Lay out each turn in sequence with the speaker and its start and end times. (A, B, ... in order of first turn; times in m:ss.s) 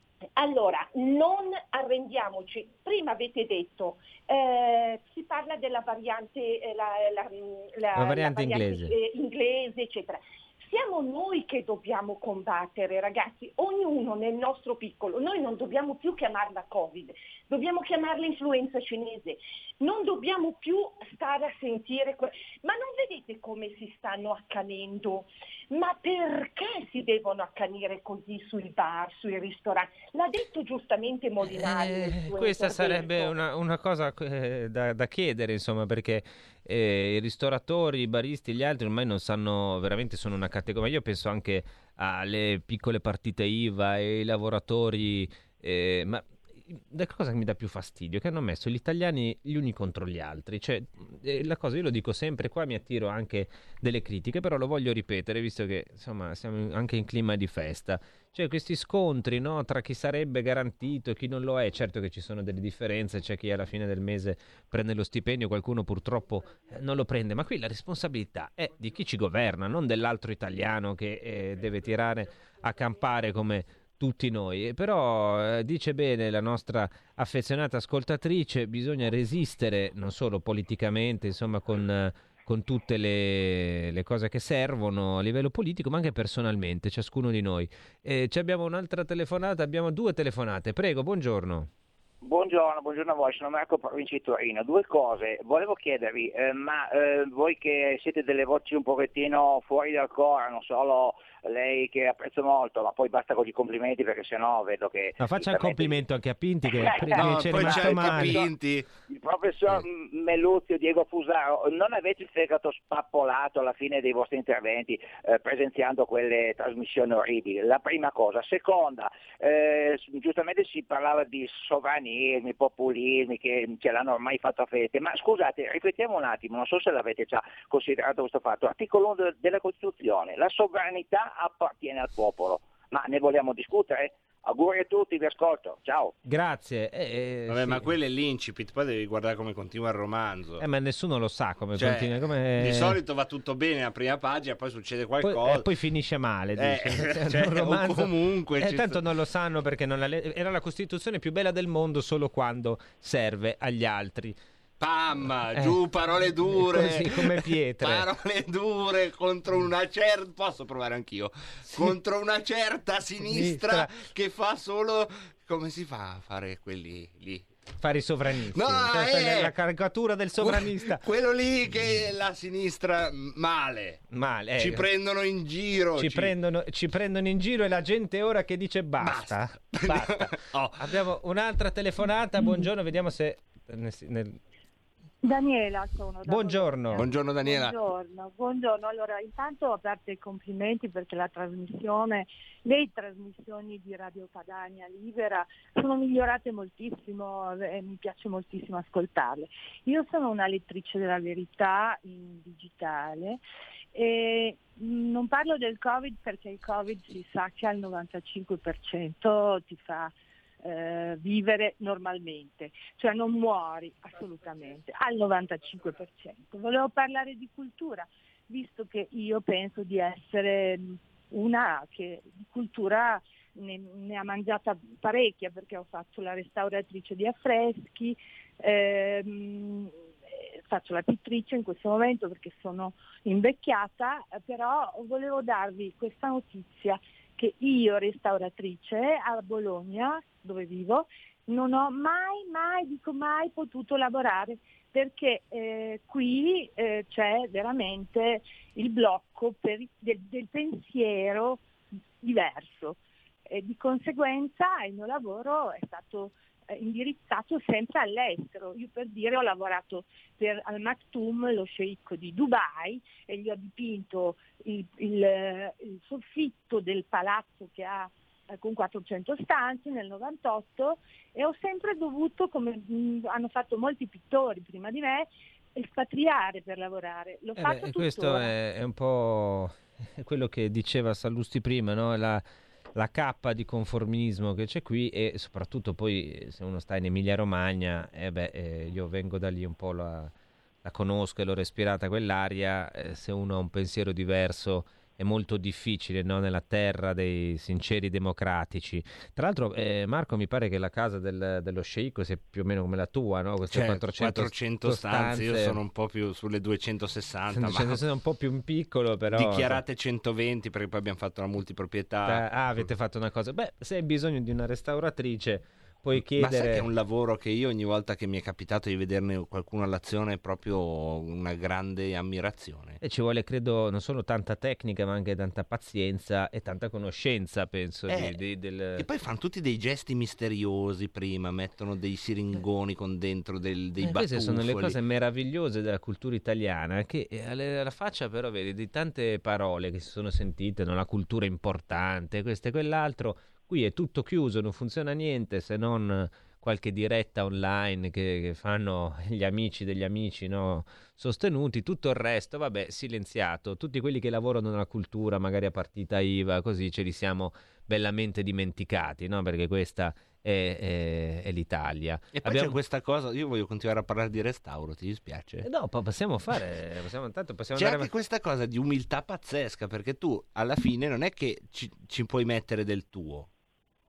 0:00.4-0:33.4 A
0:07.9-0:08.9 B
0:31.5-1:31.7 B
1:32.2-1:46.0 C
1:45.2-1:48.5 B
1:46.7-1:48.5 C
1:47.1-1:48.9 D
1:49.0-2:16.1 C
2:16.2-2:17.9 B
2:17.5-2:20.6 D
2:20.6-2:23.0 B
2:21.7-2:25.7 D
2:25.2-2:34.4 B
2:26.6-2:29.0 D
2:34.8-2:47.5 D
2:35.5-2:35.8 B
2:36.6-2:38.1 B
2:43.2-2:43.9 B
2:47.8-2:51.0 B
2:48.5-2:49.5 D
2:50.4-2:54.0 D
2:54.1-2:54.9 B
2:54.6-2:56.3 D
2:56.0-3:04.4 B
2:59.0-3:01.0 D
3:05.2-3:23.4 E
3:06.2-3:07.1 B
3:06.9-3:07.8 D
3:23.9-4:11.6 E
4:12.2-4:38.5 E
4:37.6-4:42.4 B
4:42.9-4:50.3 B
4:50.8-5:05.8 B
5:03.7-5:08.0 D
5:07.5-5:09.8 B
5:09.3-5:12.8 D
5:12.2-5:16.9 B
5:16.2-5:23.0 D
5:23.0-5:29.0 B
5:28.1-5:28.4 D
5:28.9-5:35.0 D
5:34.0-6:02.8 B
6:02.3-6:05.6 D
6:05.6-6:08.1 B
6:07.7-6:13.5 D